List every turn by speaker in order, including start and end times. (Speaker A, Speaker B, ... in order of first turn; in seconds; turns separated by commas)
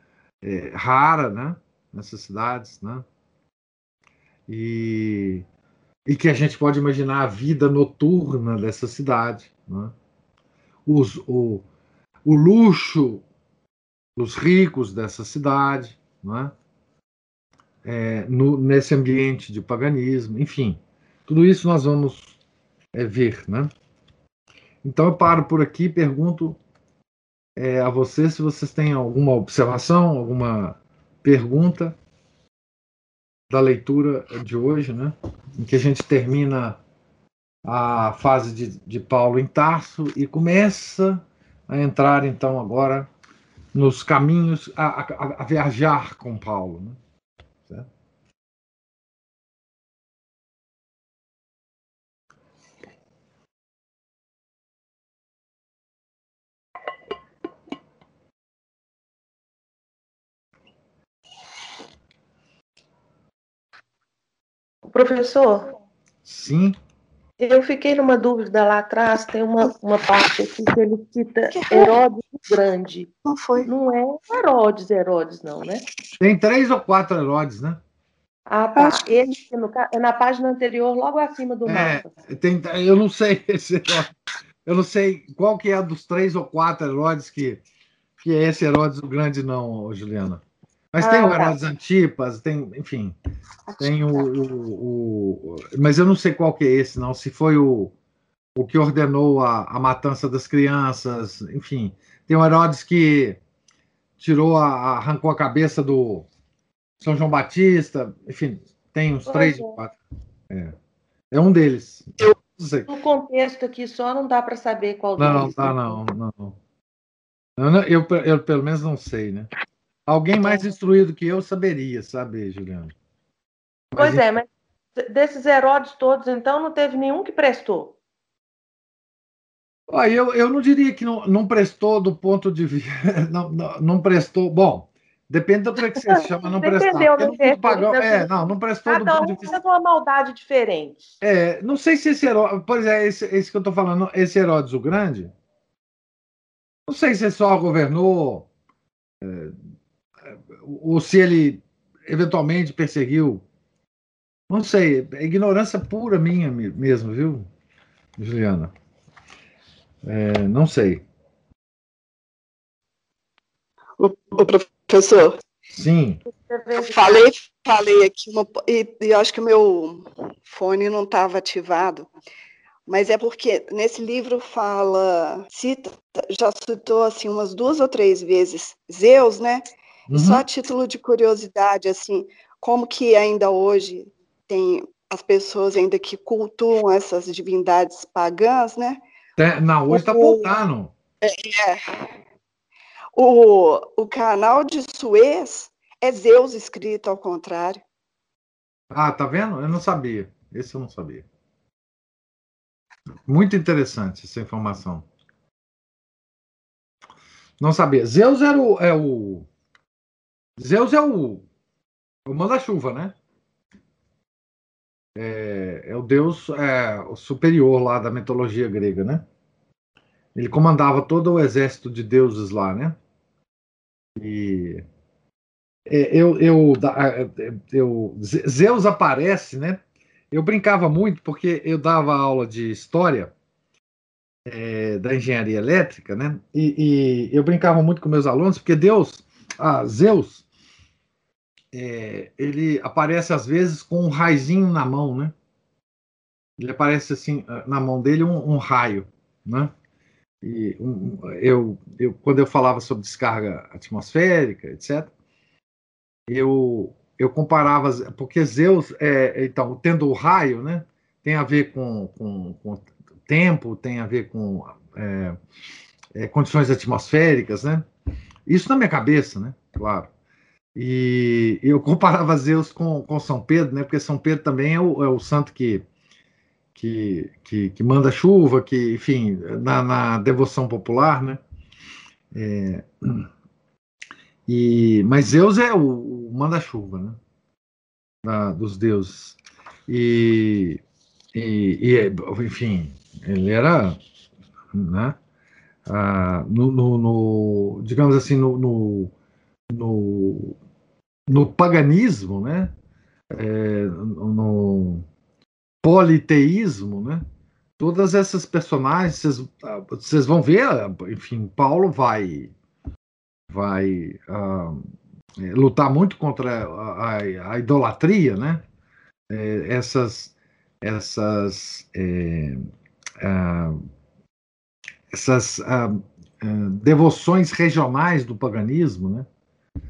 Speaker A: 0.4-3.0, Speaker A: 4.5-5.4, Speaker A: 6.0-9.9, Speaker A: 10.8-11.6, Speaker A: 12.2-13.2, Speaker A: 14.2-16.5, Speaker A: 17.8-22.4, Speaker A: 22.9-23.7, Speaker A: 24.8-26.6, Speaker A: 27.6-32.0, Speaker A: 33.5-36.8, Speaker A: 37.6-43.1, Speaker A: 43.7-47.0, Speaker B: 64.9-65.7, Speaker A: 66.2-66.8, Speaker B: 67.4-73.1, Speaker C: 71.5-72.0, Speaker C: 73.2-73.7, Speaker B: 73.6-75.9, Speaker A: 76.2-77.8, Speaker B: 78.5-82.1, Speaker C: 78.8-79.1, Speaker A: 81.6-84.1, Speaker A: 84.6-87.6, Speaker A: 88.2-93.1, Speaker B: 91.0-91.5, Speaker A: 93.8-97.9, Speaker A: 98.5-103.4, Speaker A: 104.2-106.3, Speaker A: 107.0-109.9, Speaker B: 109.3-109.7, Speaker A: 110.5-110.7, Speaker A: 111.3-112.9, Speaker B: 112.9-116.0, Speaker A: 115.2-116.6, Speaker A: 117.6-119.5, Speaker A: 120.1-122.9, Speaker B: 120.4-120.6, Speaker A: 123.9-124.2, Speaker B: 123.9-128.0, Speaker A: 129.9-139.6, Speaker B: 136.1-138.3, Speaker B: 138.8-141.1, Speaker A: 141.2-145.3, Speaker A: 146.9-148.5, Speaker A: 149.2-149.6, Speaker A: 150.3-153.4, Speaker A: 154.5-157.5, Speaker A: 158.2-158.7, Speaker A: 160.0-161.0, Speaker C: 164.0-165.4, Speaker A: 165.7-166.2, Speaker B: 166.3-167.1, Speaker C: 166.8-172.1, Speaker C: 172.9-189.0, Speaker A: 180.1-180.4, Speaker A: 189.4-190.9, Speaker C: 189.9-190.5, Speaker C: 191.2-192.1, Speaker C: 193.2-197.8, Speaker A: 198.9-201.2, Speaker A: 203.3-205.1, Speaker A: 207.6-209.5, Speaker A: 210.6-211.4, Speaker A: 212.2-213.1, Speaker A: 215.2-219.2, Speaker A: 220.3-222.9, Speaker A: 224.2-224.8, Speaker A: 225.8-229.8, Speaker A: 230.3-233.3, Speaker A: 234.4-240.4, Speaker A: 241.7-245.3, Speaker A: 246.6-249.7, Speaker A: 250.4-255.1, Speaker A: 256.3-265.4, Speaker A: 266.1-267.8, Speaker A: 268.5-270.1, Speaker A: 270.8-275.8, Speaker A: 276.7-281.4, Speaker A: 282.3-283.3, Speaker A: 284.5-287.2, Speaker A: 288.2-290.8, Speaker A: 291.3-294.0, Speaker A: 294.7-295.1, Speaker A: 295.9-299.1, Speaker A: 299.7-300.6, Speaker A: 301.3-302.7, Speaker A: 303.3-305.0, Speaker A: 305.8-307.2, Speaker A: 307.8-312.5, Speaker A: 313.5-314.9, Speaker A: 315.4-318.6, Speaker A: 319.3-322.6, Speaker A: 323.2-323.8, Speaker A: 325.1-329.2